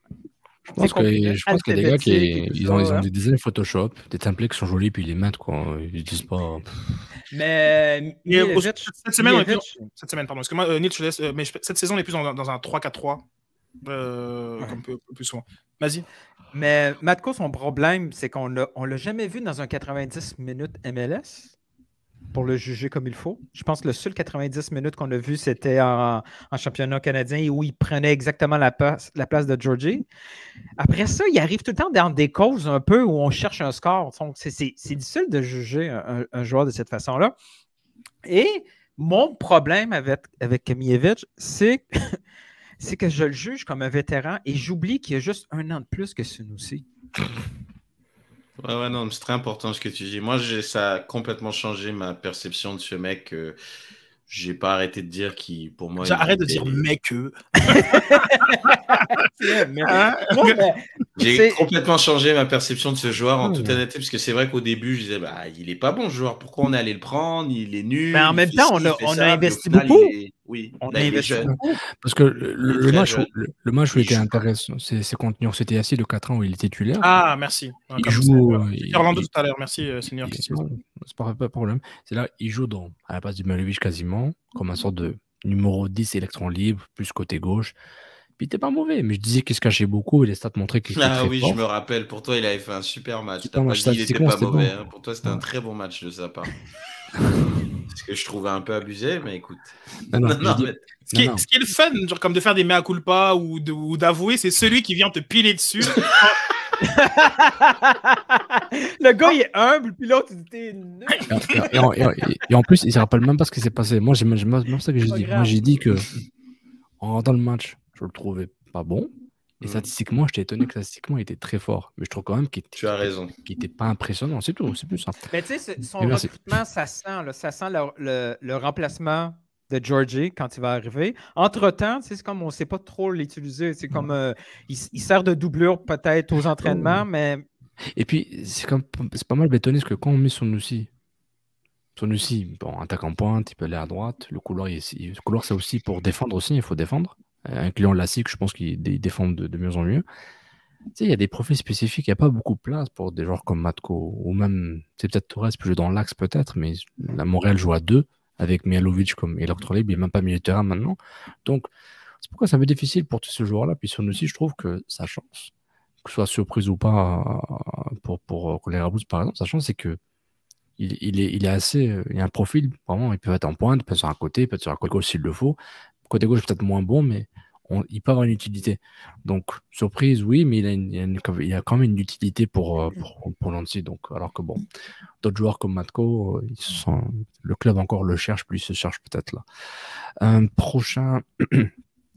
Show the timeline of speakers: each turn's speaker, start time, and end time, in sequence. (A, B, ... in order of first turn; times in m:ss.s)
0:00.7-0:03.1 A
0:00.8-0:06.8 B
0:07.3-0:09.9 A
0:08.2-0:13.2 C
0:13.8-0:16.0 C
0:16.5-0:21.5 A
0:22.3-0:30.0 A
0:30.8-0:37.4 A
0:38.2-0:42.2 A
0:42.8-0:46.8 A
0:48.6-0:53.6 D
0:54.3-0:56.8 D
0:56.0-0:59.1 C
0:57.7-0:58.8 A
0:59.3-1:01.6 A
0:59.9-1:00.5 C
1:01.2-1:11.6 D
1:03.4-1:03.8 B
1:08.1-1:10.1 A
1:10.8-1:11.8 A
1:11.4-1:17.1 B
1:12.6-1:13.3 D
1:13.9-1:14.5 D
1:17.0-1:20.6 C
1:18.0-1:19.3 B
1:20.2-1:27.7 B
1:28.4-1:31.6 B
1:30.9-1:36.5 D
1:33.4-1:34.7 B
1:37.3-1:40.8 D
1:40.1-1:41.4 B
1:41.1-1:46.4 C
1:46.8-1:51.6 A
1:51.3-1:56.1 B
1:55.0-1:55.6 A
1:57.0-2:05.2 B
2:02.8-2:03.3 D
2:05.3-2:17.4 A
2:06.0-2:06.6 B
2:16.6-2:17.0 B
2:18.0-2:20.9 B
2:22.0-2:30.0 B
2:31.0-2:41.7 B
2:42.2-2:45.5 B
2:46.0-2:50.0 B
2:50.8-3:04.6 B
3:05.2-3:09.4 B
3:10.2-3:11.7 B